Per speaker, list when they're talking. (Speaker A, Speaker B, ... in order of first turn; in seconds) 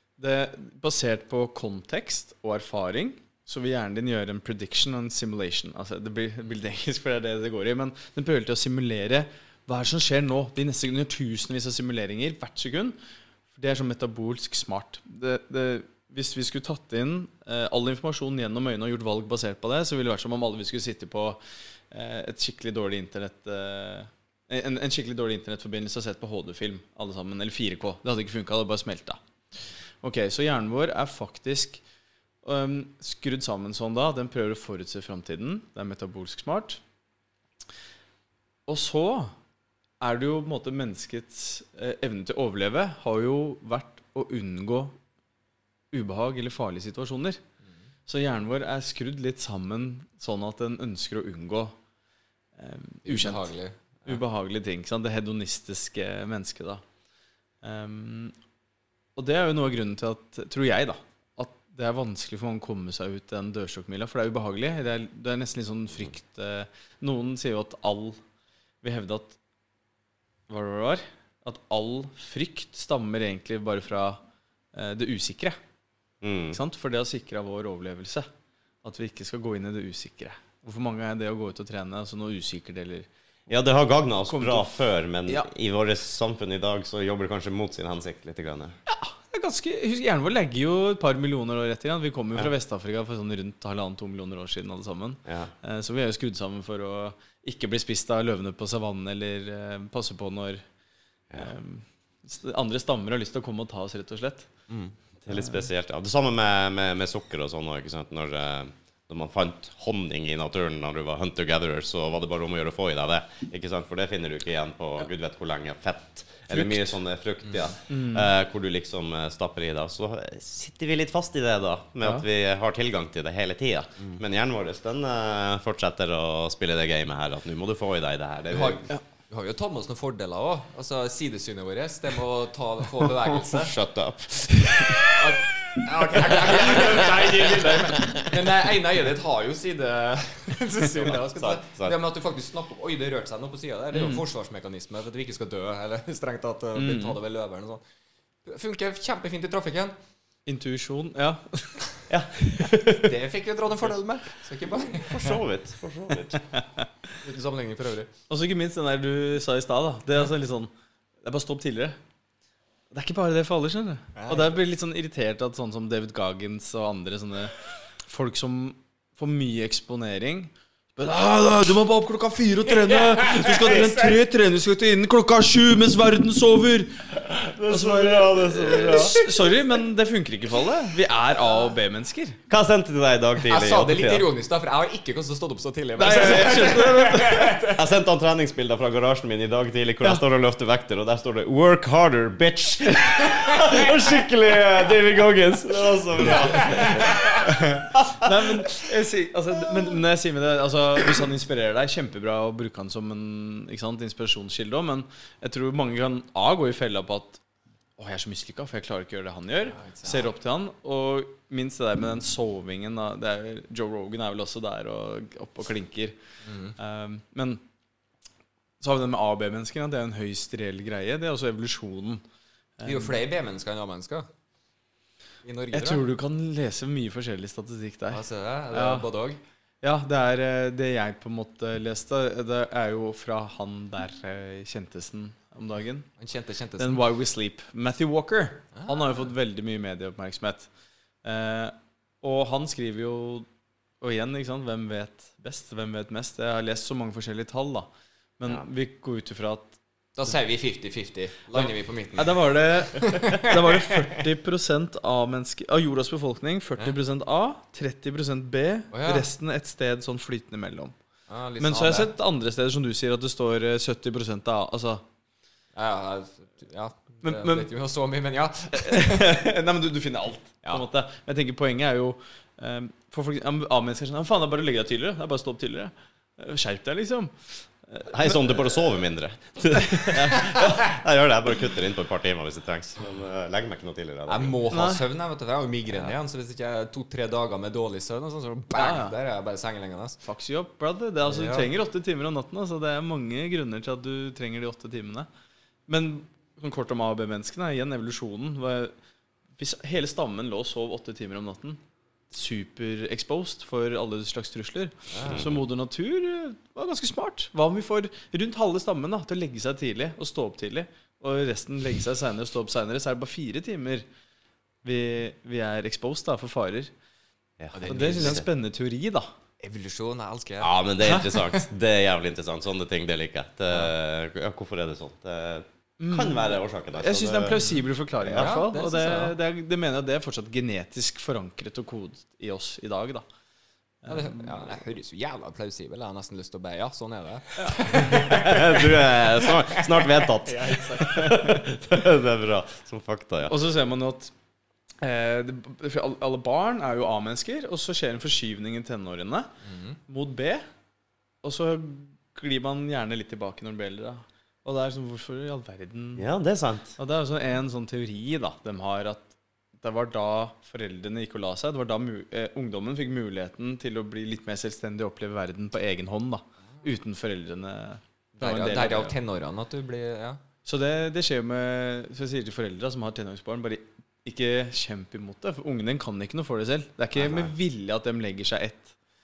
Speaker A: 0.2-13.0, 13.5-21.4, 21.9-29.2, 30.0-31.8, 32.4-36.8, 38.7-39.3, 40.0-45.0, 45.9-47.4, 48.1-51.7, 52.6-53.5, 54.0-56.8, 57.6-58.3, 59.1-68.2, 68.8-69.4, 70.5-74.2, 74.7-75.6, 76.5-78.3, 78.8-83.1, 84.3-85.5, 88.9-100.6, 101.3-104.5, 116.5-116.9, 117.9-118.3, 143.9-144.2, 146.8-147.2, 150.4-151.8, 156.5-156.8, 158.3-160.7, 161.2-162.0, 162.9-177.1, 177.7-182.4, 186.0-187.5, 197.4-207.4, 208.0-216.2, 216.8-217.6, 218.8-222.2, 222.8-223.2, 225.7-228.2, 228.7-229.1, 229.8-236.1, 236.8-240.7, 241.2-243.4, 244.0-249.8, 251.5-260.9, 261.6-265.0, 267.2-267.6, 268.8-278.6, 279.9-280.4, 284.7-285.0, 288.7-289.1, 290.2-295.3, 295.9-298.9, 299.6-301.8, 302.3-314.0, 314.8-316.9, 317.9-319.3, 326.0-333.2, 334.0-334.5, 343.4-344.3, 345.0-349.5, 350.1-350.6, 351.4-356.2, 357.0-369.1, 370.6-378.9
Speaker B: 53.0-54.2, 128.5-133.7, 135.2-147.8, 148.4-149.9, 153.0-155.4, 157.2-158.1, 164.2-164.5, 173.0-174.1, 183.5-187.9, 193.4-193.7, 196.2-197.5, 209.8-210.3, 216.4-216.8, 222.8-224.3, 225.4-226.0, 228.1-229.4, 236.2-237.0, 250.2-254.0, 258.9-259.3, 261.3-262.1, 265.7-269.3, 284.3-290.2, 291.2-291.7, 305.1-305.4, 317.7-318.4, 319.6-321.1, 328.3-329.4, 334.1-341.3, 349.6-350.0, 368.4-370.4
Speaker C: 76.2-76.6, 83.5-88.8, 95.2-95.5, 105.2-128.8, 133.5-135.2, 136.4-136.7, 141.4-141.9, 152.1-153.1, 155.0-156.4, 177.1-179.3, 182.5-184.3, 187.7-198.5, 278.1-284.6, 305.3-305.6, 317.6-318.4, 320.6-327.6, 328.2-328.5, 338.0-343.6, 356.2-356.9, 377.2-377.5